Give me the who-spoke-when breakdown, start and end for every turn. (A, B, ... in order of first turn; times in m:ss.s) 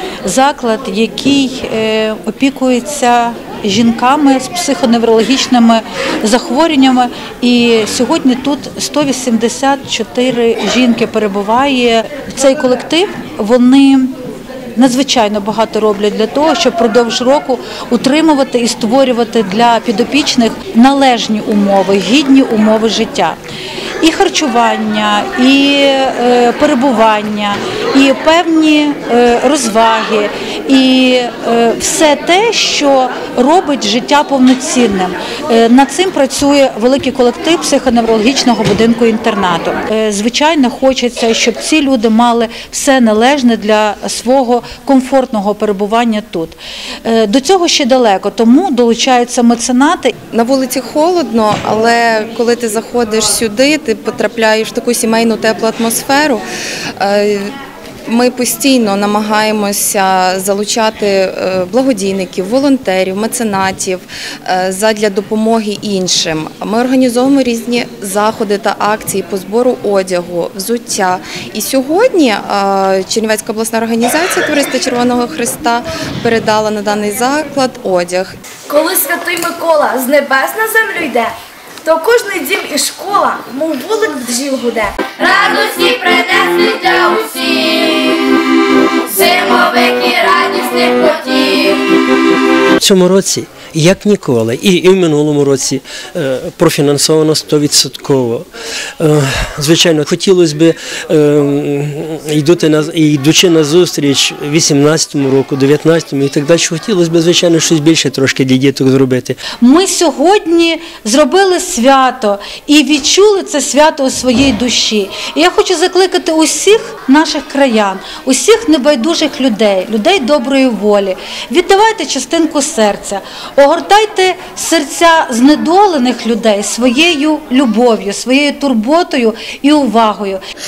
0:00.2-0:14.2 A
0:14.8-0:23.4 A
0:24.0-0:50.1 A
0:50.3-0:56.4 B
0:57.0-0:57.5 B
0:58.1-1:18.4 B
1:18.7-1:25.1 C
1:25.2-1:27.9 D
1:29.1-1:31.8 D
1:32.8-1:38.5 E
1:39.0-1:49.4 E
1:49.6-2:10.4 A